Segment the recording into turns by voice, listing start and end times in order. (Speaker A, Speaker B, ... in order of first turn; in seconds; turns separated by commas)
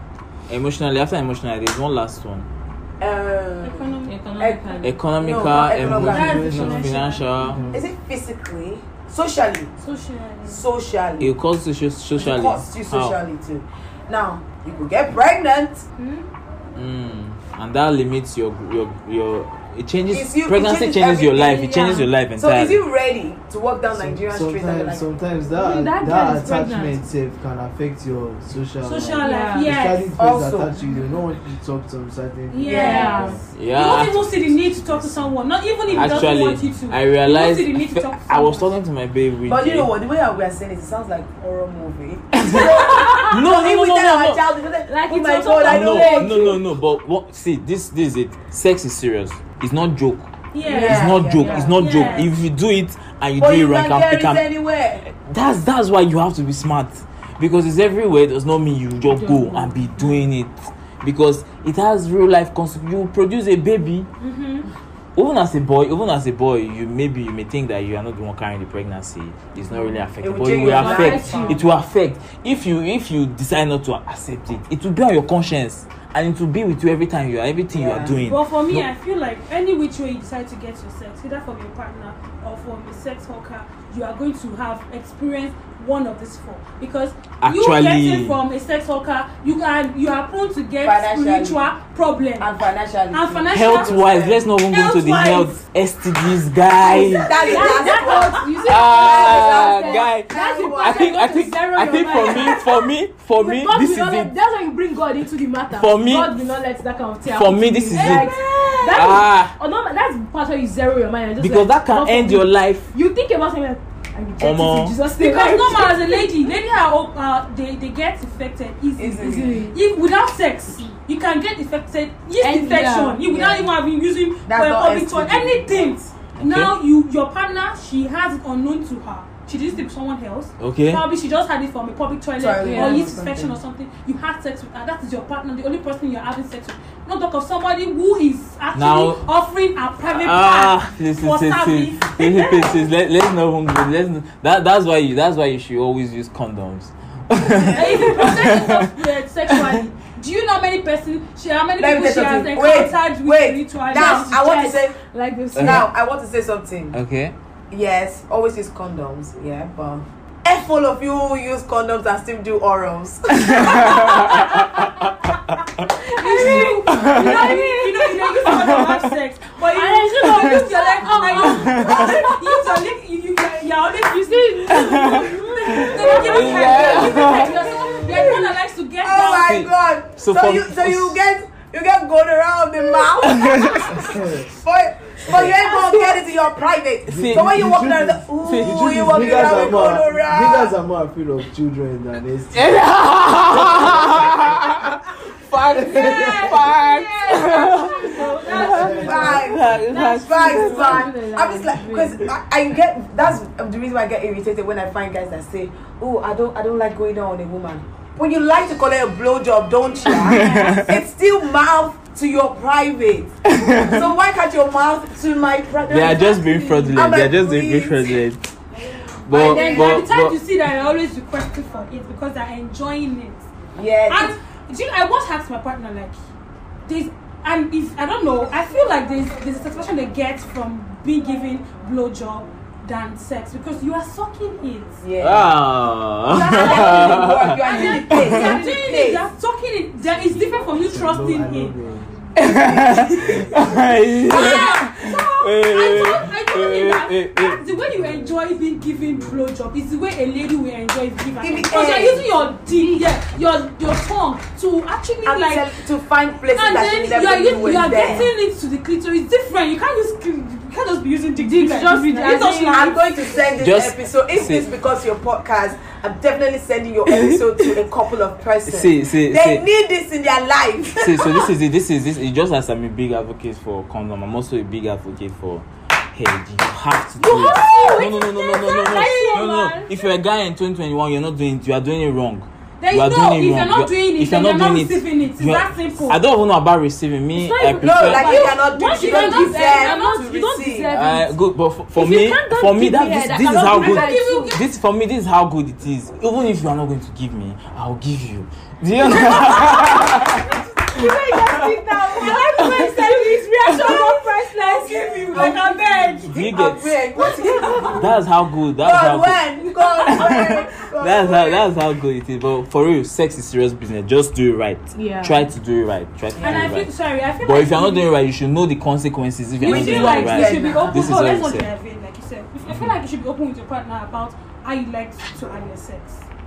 Speaker A: 0.5-2.5, Speaker B: 3.0-6.5, Speaker C: 3.6-4.2, Speaker D: 4.0-5.0, Speaker A: 4.8-7.6, Speaker E: 5.8-7.9, Speaker C: 5.8-7.5, Speaker D: 6.1-6.5, Speaker B: 7.7-9.7, Speaker C: 9.8-10.6, Speaker B: 10.5-11.3, Speaker A: 11.2-13.2, Speaker B: 12.2-15.8, Speaker C: 16.0-16.3, Speaker A: 16.8-22.8, Speaker B: 20.1-21.8, Speaker D: 21.7-22.1, Speaker B: 22.4-25.1, Speaker E: 23.9-35.3, Speaker D: 25.6-27.0, Speaker C: 28.8-30.2, Speaker D: 29.2-29.7, Speaker B: 30.2-30.8, Speaker C: 32.5-38.7, Speaker B: 32.6-33.3, Speaker D: 32.6-33.4, Speaker A: 33.5-34.2, Speaker E: 35.9-36.5, Speaker A: 35.9-39.9, Speaker B: 39.5-46.6, Speaker A: 42.4-44.4, Speaker D: 44.9-46.6, Speaker A: 45.6-50.3, Speaker C: 50.5-52.3, Speaker D: 50.6-52.3, Speaker B: 50.6-51.8, Speaker A: 50.8-54.5, Speaker B: 53.4-55.1, Speaker A: 55.1-64.1, Speaker D: 59.0-60.2, Speaker C: 64.2-64.7, Speaker A: 65.2-78.9, Speaker B: 70.2-71.6, Speaker D: 70.7-71.6, Speaker C: 70.9-71.5, Speaker B: 77.7-78.2, Speaker C: 78.3-92.5, Speaker A: 87.4-88.4, Speaker B: 90.8-91.7, Speaker B: 92.4-94.4, Speaker C: 93.1-94.0, Speaker A: 93.5-97.4, Speaker C: 94.7-95.6, Speaker D: 96.9-102.7, Speaker C: 97.0-98.6, Speaker B: 97.2-101.1, Speaker A: 98.6-104.3, Speaker C: 102.0-102.8, Speaker D: 103.4-116.3, Speaker A: 105.7-106.3, Speaker A: 107.2-108.3, Speaker C: 108.0-109.2, Speaker A: 108.9-109.5, Speaker A: 111.4-112.9, Speaker A: 114.4-115.0, Speaker C: 115.2-142.9, Speaker B: 119.0-119.7, Speaker D: 119.2-119.8, Speaker D: 122.4-123.2, Speaker B: 123.2-123.7, Speaker B: 124.5-126.1, Speaker A: 126.4-126.7, Speaker A: 130.6-131.0, Speaker B: 132.4-133.6, Speaker D: 132.6-133.2, Speaker A: 138.7-139.2, Speaker A: 140.1-148.9, Speaker B: 147.5-148.2, Speaker C: 147.7-154.3, Speaker A: 149.5-149.8, Speaker B: 151.8-155.0, Speaker D: 153.9-155.9, Speaker A: 155.6-155.9, Speaker B: 155.6-157.0, Speaker A: 156.9-157.3, Speaker B: 157.7-164.5, Speaker A: 163.4-164.6, Speaker C: 164.2-164.6, Speaker C: 166.1-179.6, Speaker D: 166.1-168.8, Speaker A: 166.4-167.6, Speaker A: 168.5-169.1, Speaker D: 169.6-172.8, Speaker A: 171.4-172.2, Speaker D: 173.9-178.4, Speaker A: 174.7-178.3, Speaker B: 176.7-190.7, Speaker A: 179.4-181.2, Speaker A: 183.2-184.0, Speaker E: 183.9-184.5, Speaker E: 185.3-185.6, Speaker C: 185.7-186.0, Speaker A: 187.1-187.7, Speaker E: 187.1-192.9, Speaker A: 188.4-189.2, Speaker A: 192.5-201.1, Speaker E: 193.5-194.7, Speaker E: 195.7-196.6, Speaker C: 195.8-199.4, Speaker D: 197.7-199.0, Speaker B: 198.1-218.2, Speaker E: 198.6-199.6, Speaker D: 199.9-202.3, Speaker A: 210.1-211.0, Speaker D: 210.3-210.7, Speaker A: 213.5-214.1, Speaker A: 215.9-218.5, Speaker C: 216.3-217.0, Speaker A: 219.2-220.4, Speaker B: 219.3-220.1, Speaker C: 219.3-223.4, Speaker B: 223.8-224.3, Speaker C: 224.1-226.2, Speaker C: 226.9-235.0, Speaker B: 235.0-235.6, Speaker A: 235.2-238.6, Speaker B: 236.3-239.3, Speaker C: 236.3-241.8, Speaker E: 240.3-242.3, Speaker A: 242.4-247.6, Speaker C: 242.7-243.6, Speaker E: 243.1-243.8, Speaker C: 244.1-255.7, Speaker E: 247.8-249.4, Speaker B: 251.4-252.3, Speaker D: 252.6-253.1, Speaker B: 255.2-258.3, Speaker C: 256.5-263.1, Speaker D: 257.5-258.3, Speaker D: 261.4-263.1, Speaker B: 262.6-271.5, Speaker A: 263.6-264.7, Speaker A: 267.1-267.8, Speaker A: 268.7-269.6, Speaker A: 271.0-288.5, Speaker C: 277.2-279.9, Speaker D: 277.2-278.1, Speaker D: 278.7-279.6, Speaker C: 282.8-286.2, Speaker D: 287.3-291.4, Speaker B: 287.8-290.9, Speaker C: 288.2-290.1, Speaker A: 290.9-300.4, Speaker D: 292.0-294.6, Speaker C: 293.6-294.7, Speaker C: 299.3-299.8, Speaker D: 300.4-305.8, Speaker C: 301.9-306.3, Speaker B: 302.2-302.4, Speaker A: 302.5-302.9, Speaker B: 305.2-308.1, Speaker A: 306.2-306.9, Speaker C: 307.2-308.0, Speaker A: 307.9-309.4, Speaker B: 308.8-311.7, Speaker A: 310.1-321.7, Speaker D: 314.9-315.5, Speaker B: 316.4-316.7, Speaker C: 316.4-318.1, Speaker C: 319.6-326.2, Speaker B: 319.6-321.2, Speaker A: 322.7-322.9